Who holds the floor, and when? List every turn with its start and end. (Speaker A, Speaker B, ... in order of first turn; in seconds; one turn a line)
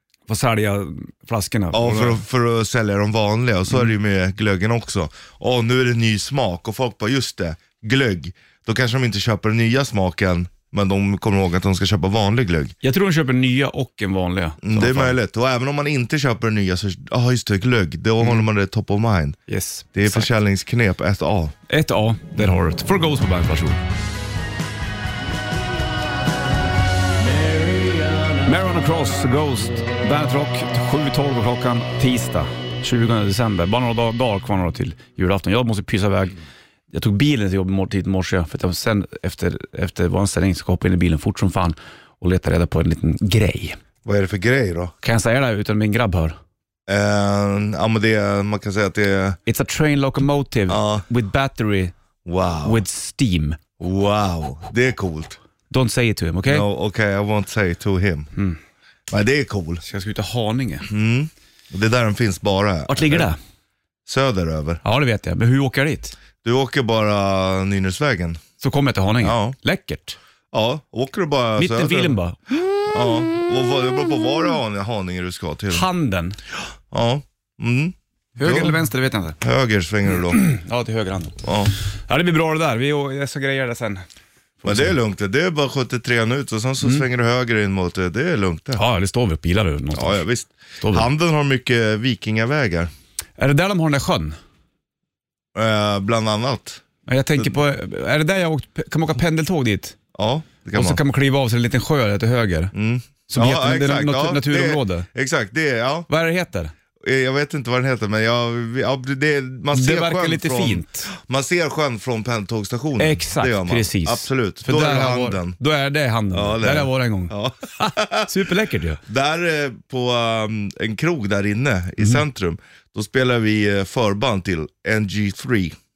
Speaker A: 0.3-2.2
Speaker B: 1.7-12.7
Speaker A: 12.8-15.2
Speaker B: 14.6-19.4
Speaker A: 19.5-20.3
Speaker B: 19.9-21.5
Speaker A: 21.7-23.8
Speaker A: 28.4-36.4
Speaker A: 36.9-43.8
Speaker B: 44.0-44.9
Speaker A: 45.0-46.4
Speaker B: 46.9-49.4
Speaker A: 49.5-51.9
Speaker B: 50.7-51.0
Speaker B: 52.2-52.8
Speaker A: 52.6-53.6
Speaker B: 53.8-55.4
Speaker A: 55.7-56.7
Speaker B: 56.5-58.3
Speaker B: 59.1-59.8
Speaker A: 59.9-60.9
Speaker B: 60.9-63.3
Speaker A: 62.9-63.4
Speaker B: 64.1-64.8
Speaker A: 64.8-66.2
Speaker B: 66.4-68.4
Speaker A: 68.6-70.2
Speaker B: 69.2-69.6
Speaker B: 70.5-72.2
Speaker A: 71.6-72.6
Speaker B: 72.8-75.9
Speaker A: 75.7-76.4
Speaker B: 76.9-78.8
Speaker A: 78.4-79.4
Speaker B: 79.4-80.4
Speaker A: 80.3-84.0
Speaker B: 81.4-81.7
Speaker A: 84.6-85.0
Speaker B: 84.6-88.8
Speaker A: 88.8-90.2
Speaker B: 89.9-92.9
Speaker A: 90.8-91.1
Speaker A: 93.4-94.4
Speaker B: 95.5-96.8
Speaker A: 97.1-100.0
Speaker B: 100.2-101.0
Speaker A: 100.7-102.7
Speaker B: 102.7-106.1
Speaker A: 103.3-105.1
Speaker A: 106.1-106.7
Speaker B: 107.0-115.6
Speaker A: 109.7-111.1
Speaker A: 113.0-119.0
Speaker B: 116.3-118.3
Speaker B: 119.1-125.8